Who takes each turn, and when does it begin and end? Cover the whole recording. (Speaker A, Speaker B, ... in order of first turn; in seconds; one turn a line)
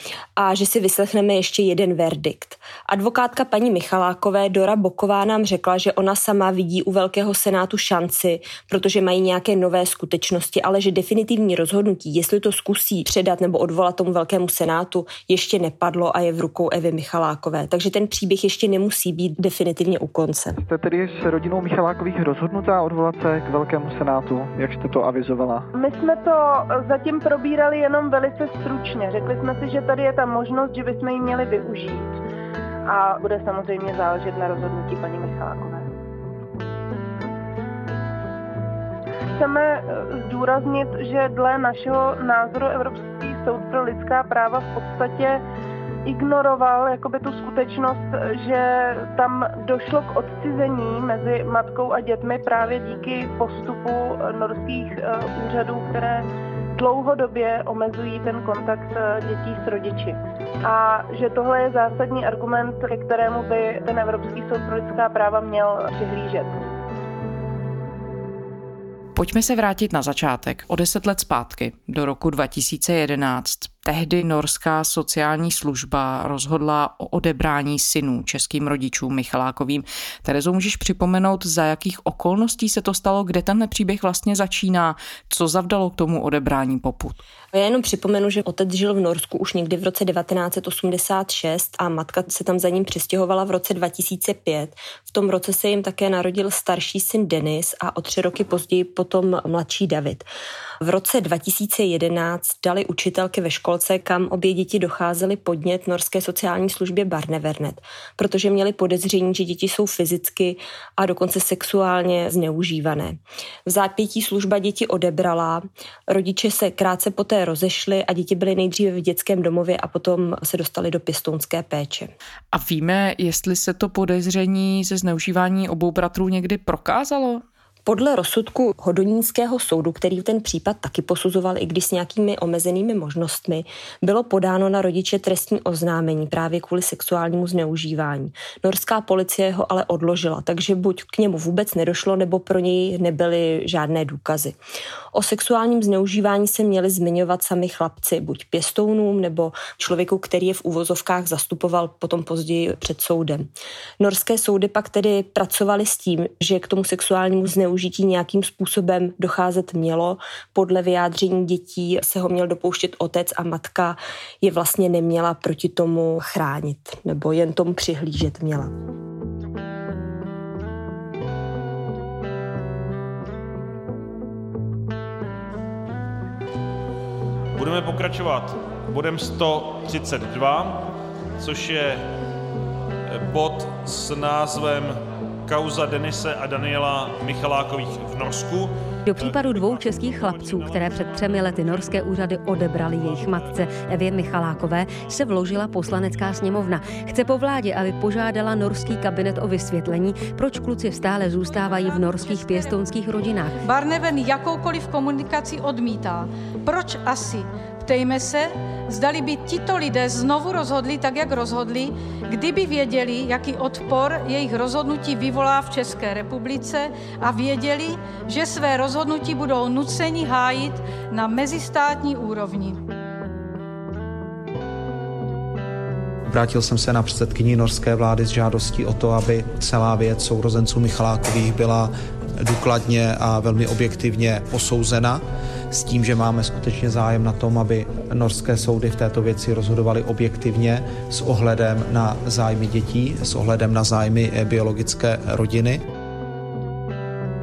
Speaker A: 0.4-20.6
Speaker B: 20.6-25.7
Speaker C: 25.8-32.2
Speaker C: 32.9-35.9
Speaker C: 39.3-45.4
Speaker C: 46.1-66.6
Speaker D: 69.2-87.2
Speaker A: 87.5-100.3
Speaker A: 100.8-122.1
Speaker D: 122.5-127.4
Speaker A: 127.9-144.6
Speaker A: 145.1-168.7
Speaker E: 177.6-182.1
Speaker E: 183.1-191.9
Speaker F: 189.1-203.6
Speaker E: 193.0-193.7
Speaker G: 201.4-222.8
Speaker H: 226.3-245.8